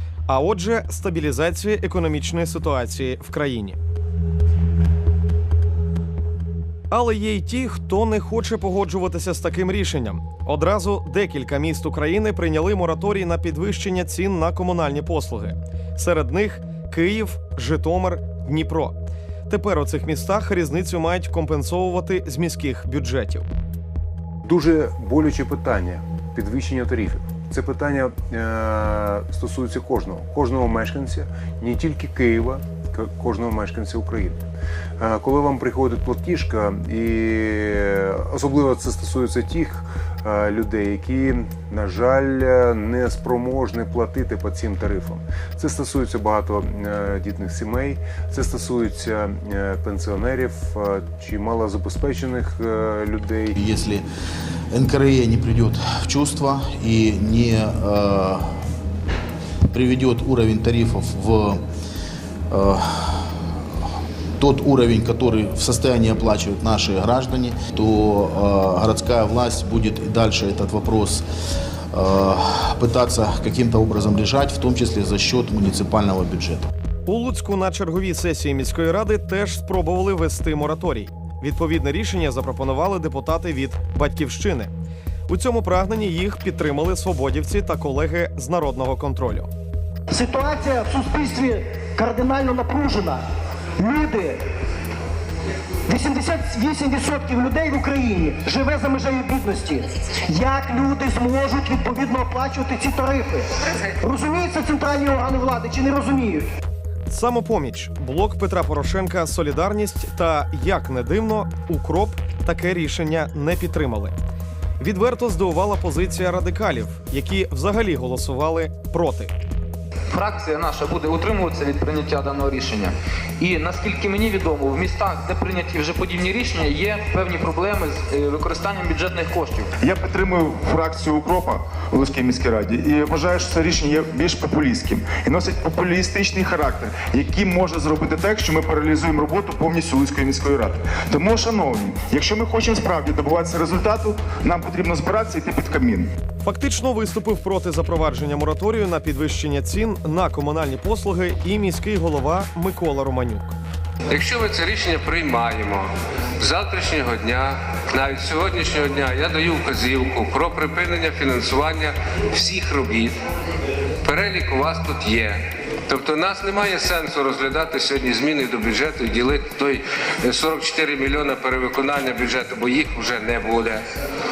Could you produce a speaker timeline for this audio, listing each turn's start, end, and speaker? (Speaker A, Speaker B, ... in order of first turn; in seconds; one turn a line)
Speaker A: 0.3-3.8
Speaker A: 6.9-19.0
Speaker A: 19.5-23.5
Speaker B: 24.4-34.5
Speaker B: 35.0-53.6
Speaker C: 53.5-54.0
Speaker C: 54.7-58.5
Speaker C: 59.7-61.6
Speaker C: 62.5-63.5
Speaker C: 64.4-71.2
Speaker C: 71.9-76.7
Speaker A: 77.1-84.7
Speaker A: 85.3-89.5
Speaker D: 90.1-93.2
Speaker D: 93.8-94.4
Speaker D: 95.9-106.5
Speaker A: 107.1-114.2
Speaker A: 114.8-119.3
Speaker E: 120.1-129.7
Speaker F: 129.8-146.1
Speaker A: 146.4-153.6
Speaker G: 154.1-163.2
Speaker G: 164.0-173.8